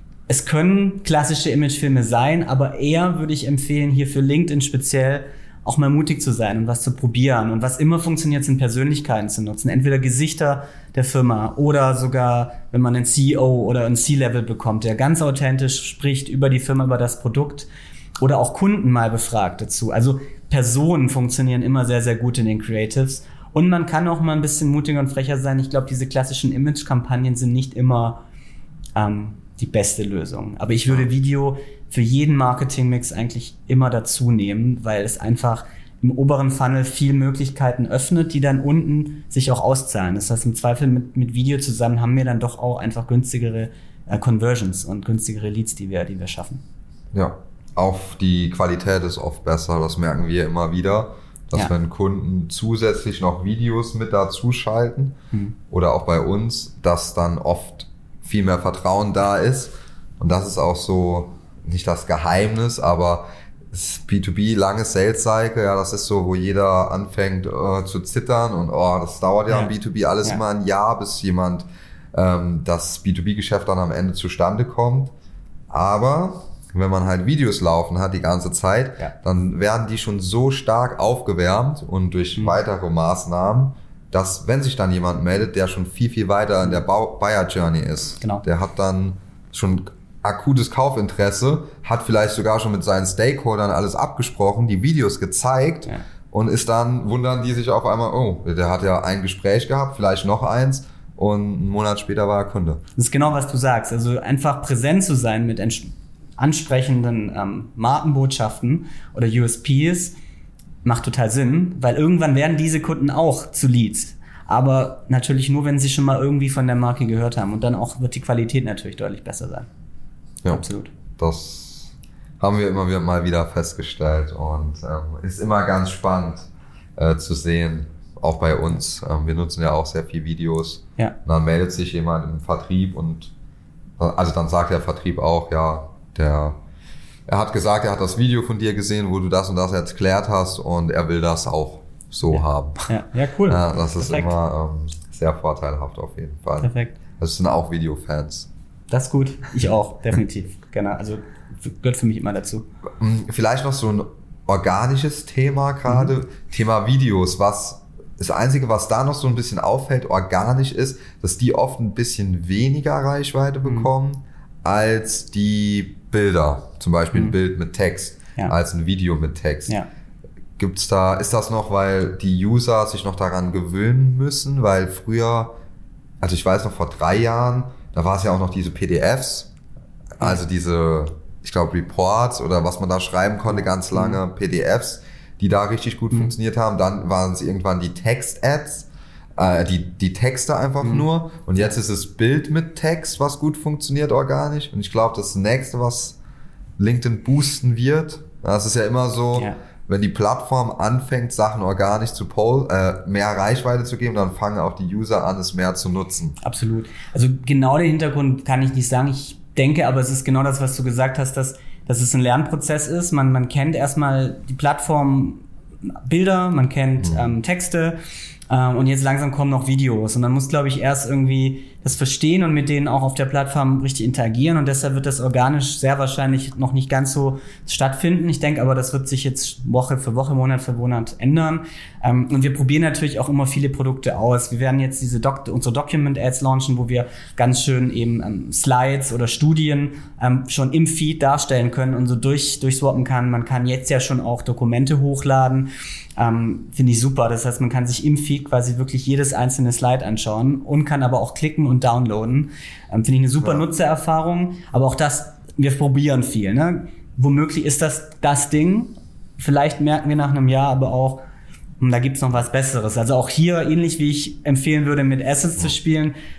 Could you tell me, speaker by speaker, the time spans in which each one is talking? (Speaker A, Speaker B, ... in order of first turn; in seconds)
Speaker A: 0.3-17.7, 18.2-28.2, 29.0-46.6, 69.5-69.7, 103.0-110.2, 110.8-119.7, 120.5-120.9, 142.3-144.3, 146.6-147.0, 148.9-152.7, 155.9-156.1, 183.5-184.2, 206.4-218.0, 218.5-261.2, 261.8-266.1
Speaker B: 47.1-55.2, 55.7-75.1, 75.7-102.8, 121.2-133.3, 134.0-136.6, 137.3-142.9, 143.5-148.5, 153.0-169.8, 170.6-175.6, 176.2-179.5, 180.2-196.2, 196.8-206.4, 217.0-217.3